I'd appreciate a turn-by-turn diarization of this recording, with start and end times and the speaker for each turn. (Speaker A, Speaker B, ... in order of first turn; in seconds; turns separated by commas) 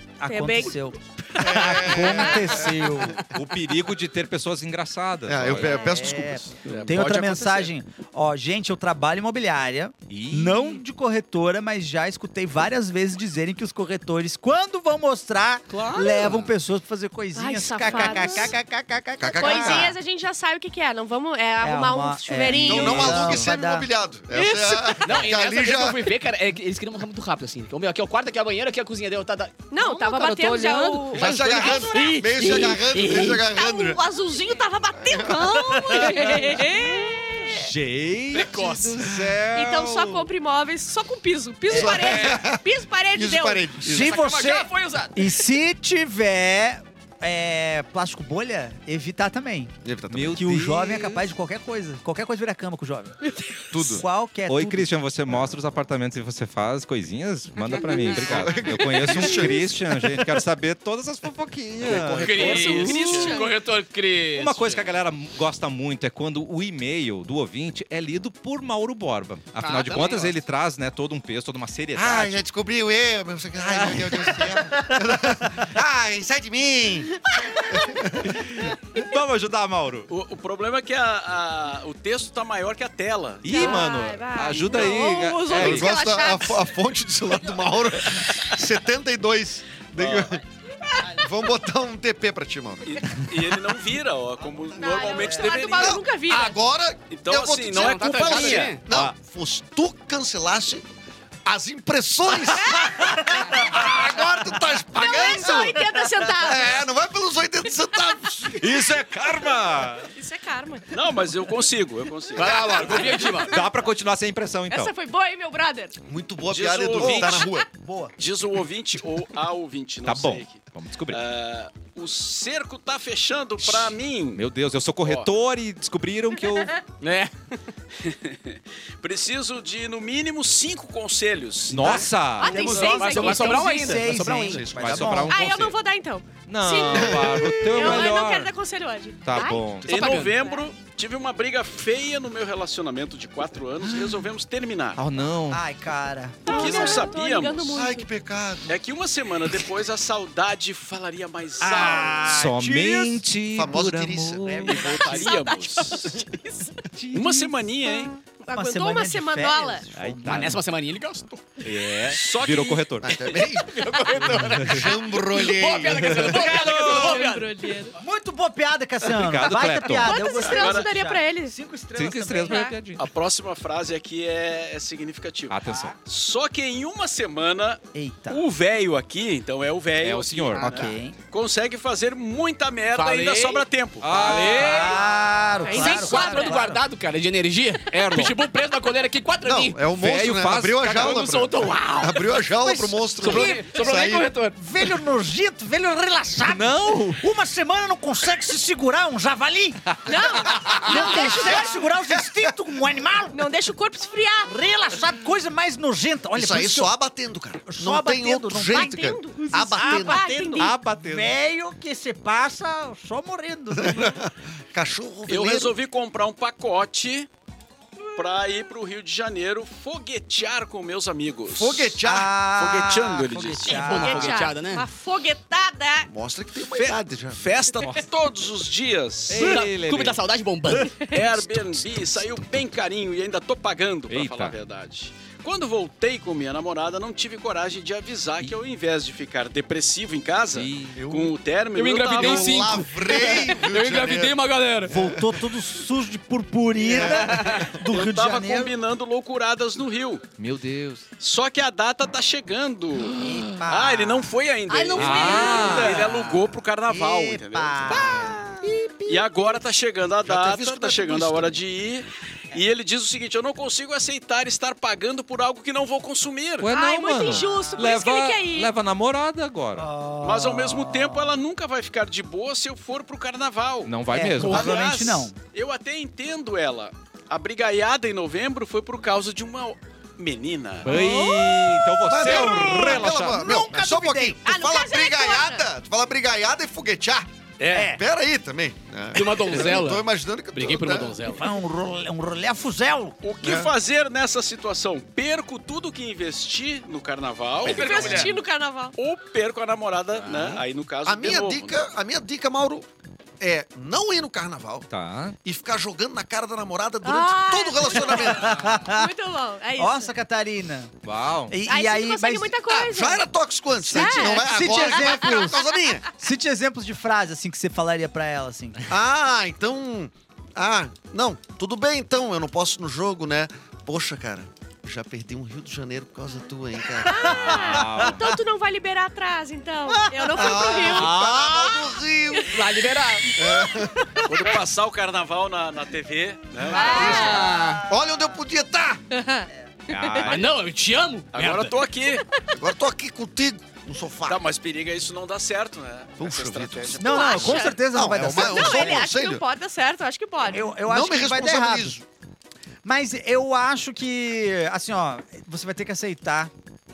Speaker A: 0.2-3.2, Speaker B: 0.2-2.7, Speaker C: 1.4-3.1, Speaker D: 3.3-5.9, Speaker C: 5.2-6.8, Speaker A: 5.6-19.9, Speaker E: 6.6-7.7, Speaker D: 10.1-10.8, Speaker F: 15.7-16.4, Speaker B: 17.3-18.5, Speaker C: 19.2-20.0, Speaker B: 19.4-23.4, Speaker A: 21.6-23.9, Speaker C: 22.5-26.1, Speaker B: 24.3-25.2, Speaker F: 25.0-33.4, Speaker B: 29.7-32.2, Speaker C: 31.1-34.0, Speaker A: 31.9-32.8, Speaker B: 33.2-37.7, Speaker C: 35.0-35.6, Speaker A: 35.6-36.6, Speaker D: 37.5-40.2, Speaker F: 38.3-39.0, Speaker C: 39.0-39.3, Speaker B: 39.5-43.6, Speaker A: 41.7-42.1, Speaker C: 41.7-44.2, Speaker F: 42.0-42.4, Speaker A: 43.8-49.7, Speaker F: 43.9-45.4, Speaker C: 49.8-50.5, Speaker D: 50.1-51.3, Speaker A: 50.3-53.1, Speaker B: 53.2-54.0, Speaker C: 53.7-54.1, Speaker A: 53.9-54.9, Speaker D: 54.5-63.4, Speaker F: 57.8-58.6, Speaker C: 57.9-60.1, Speaker C: 61.8-63.0, Speaker F: 61.8-64.9, Speaker B: 62.3-63.5, Speaker D: 64.3-72.4, Speaker F: 69.6-70.3, Speaker C: 71.9-77.2, Speaker D: 73.6-74.3, Speaker C: 77.7-78.3, Speaker D: 78.2-80.1, Speaker E: 80.1-83.8, Speaker D: 83.4-85.9, Speaker B: 83.5-86.7, Speaker C: 85.5-90.4, Speaker E: 90.0-90.4, Speaker C: 91.0-93.1, Speaker E: 92.8-96.0, Speaker B: 94.7-96.6, Speaker A: 95.1-95.4, Speaker C: 95.7-100.9, Speaker E: 97.1-98.8, Speaker F: 97.7-98.8, Speaker D: 98.8-99.1, Speaker C: 101.4-105.8, Speaker D: 103.6-104.4, Speaker B: 104.9-106.8, Speaker C: 106.3-109.0, Speaker D: 108.5-110.1, Speaker B: 110.1-110.9, Speaker E: 110.9-113.4, Speaker F: 112.3-113.5, Speaker C: 112.3-113.3, Speaker D: 113.4-114.9, Speaker B: 114.7-116.0, Speaker C: 116.1-117.7, Speaker E: 116.5-117.5, Speaker D: 117.0-117.4, Speaker A: 117.7-118.1, Speaker E: 118.2-124.4, Speaker D: 120.0-121.2, Speaker D: 124.3-126.7, Speaker E: 125.0-125.3, Speaker F: 127.0-127.3, Speaker E: 128.0-133.2, Speaker D: 131.7-132.6, Speaker A: 131.7-135.4, Speaker B: 132.3-134.0, Speaker F: 132.9-134.7, Speaker C: 134.0-135.3, Speaker D: 134.6-135.8, Speaker B: 135.3-140.7, Speaker D: 136.5-138.5, Speaker C: 136.9-138.1, Speaker D: 139.2-140.2, Speaker E: 139.8-145.3, Speaker F: 139.8-140.3, Speaker D: 144.9-145.6, Speaker A: 145.5-147.1, Speaker B: 146.4-148.1, Speaker E: 146.5-147.8, Speaker C: 147.7-148.8, Speaker E: 148.7-152.3, Speaker A: 151.6-153.2, Speaker D: 152.2-154.7, Speaker C: 153.5-154.8, Speaker A: 154.4-155.2, Speaker E: 154.6-156.2, Speaker B: 154.7-156.8, Speaker A: 156.9-158.0, Speaker E: 157.1-158.1, Speaker B: 158.3-159.8, Speaker A: 158.5-160.6, Speaker D: 159.9-160.6, Speaker F: 160.2-161.5, Speaker D: 161.6-163.2, Speaker E: 162.1-163.0, Speaker C: 163.0-166.2, Speaker F: 163.2-167.7, Speaker D: 164.4-164.8, Speaker D: 166.1-167.2, Speaker B: 166.3-167.9, Speaker A: 166.6-167.2, Speaker A: 167.9-172.7, Speaker D: 169.1-170.3, Speaker B: 169.9-171.6, Speaker E: 170.3-170.9, Speaker D: 171.9-173.1, Speaker B: 172.4-172.7, Speaker E: 173.0-184.7, Speaker D: 175.5-176.0, Speaker A: 177.9-178.4, Speaker D: 180.0-180.8, Speaker F: 180.5-180.9, Speaker A: 180.6-181.1, Speaker F: 182.9-185.0, Speaker D: 184.0-185.0, Speaker A: 184.4-186.8, Speaker B: 185.6-186.6, Speaker F: 185.7-189.8, Speaker D: 187.9-188.4, Speaker C: 189.4-194.3, Speaker D: 189.9-191.3, Speaker F: 190.9-192.4, Speaker A: 192.6-199.8, Speaker F: 193.2-194.6, Speaker D: 196.5-197.2, Speaker B: 200.1-201.7, Speaker D: 200.6-201.2, Speaker C: 200.7-202.5, Speaker A: 200.8-203.4, Speaker B: 203.3-204.5, Speaker A: 204.4-206.9, Speaker C: 206.3-210.3, Speaker A: 207.6-214.2, Speaker B: 208.7-210.7, Speaker D: 210.6-211.3, Speaker C: 213.7-215.7, Speaker E: 215.3-217.3, Speaker E: 218.2-223.9, Speaker C: 221.5-222.4, Speaker A: 222.0-224.4, Speaker F: 223.7-224.8, Speaker B: 223.8-226.1, Speaker C: 226.1-227.4, Speaker E: 226.7-229.6, Speaker D: 227.8-228.1, Speaker D: 229.3-230.2, Speaker F: 229.3-231.1, Speaker B: 230.9-231.3, Speaker E: 231.1-242.8, Speaker D: 234.1-234.6, Speaker D: 240.5-241.0, Speaker C: 240.9-241.3, Speaker F: 241.7-245.0, Speaker C: 242.1-244.4, Speaker A: 244.9-248.7, Speaker C: 246.8-247.3, Speaker E: 247.1-250.2, Speaker F: 247.4-247.7, Speaker D: 250.4-251.1, Speaker E: 251.2-258.4, Speaker A: 253.2-254.3, Speaker F: 254.8-256.5, Speaker B: 254.9-256.0, Speaker D: 254.9-256.2, Speaker A: 256.9-259.6, Speaker E: 259.1-266.7, Speaker C: 260.2-261.6, Speaker D: 266.6-269.9, Speaker B: 266.7-268.7, Speaker A: 269.7-271.4, Speaker E: 270.2-281.0, Speaker D: 273.9-274.9, Speaker A: 274.1-275.3, Speaker D: 280.8-283.5, Speaker B: 280.8-283.8, Speaker C: 282.1-291.2, Speaker A: 282.2-284.4, Speaker B: 284.4-285.6, Speaker F: 287.6-288.0, Speaker A: 287.7-288.0, Speaker F: 289.1-291.5, Speaker A: 291.2-293.1, Speaker E: 293.2-298.3, Speaker C: 293.4-293.7, Speaker B: 297.6-298.9, Speaker F: 297.6-298.3, Speaker E: 298.9-301.8, Speaker F: 300.2-300.6, Speaker C: 301.0-302.9, Speaker C: 303.4-304.9, Speaker D: 304.9-305.4, Speaker C: 305.4-308.7, Speaker B: 307.0-310.1, Speaker A: 308.2-309.1, Speaker A: 309.8-310.9, Speaker D: 311.0-311.6, Speaker A: 311.5-312.6, Speaker B: 311.7-313.3, Speaker C: 312.7-316.1, Speaker A: 313.8-315.6, Speaker B: 313.8-316.0, Speaker A: 316.1-318.8, Speaker C: 318.9-327.8, Speaker B: 327.0-331.8, Speaker A: 327.1-328.4, Speaker D: 327.4-328.2, Speaker A: 329.9-331.7, Speaker C: 330.3-332.6, Speaker D: 331.1-331.5, Speaker B: 332.3-332.6, Speaker F: 332.5-333.3, Speaker C: 333.4-334.2, Speaker B: 333.4-333.7, Speaker E: 334.2-337.4, Speaker B: 336.7-337.5, Speaker F: 336.7-337.8, Speaker C: 336.9-337.3, Speaker C: 337.9-339.0, Speaker B: 339.1-340.3, Speaker D: 339.9-340.6, Speaker F: 340.2-341.8, Speaker E: 341.3-342.2, Speaker B: 342.2-342.4, Speaker C: 342.5-344.4, Speaker E: 344.2-347.5, Speaker C: 346.2-349.4, Speaker A: 347.0-349.1, Speaker B: 347.0-350.7, Speaker A: 350.5-352.0, Speaker C: 350.8-352.0, Speaker A: 352.8-356.5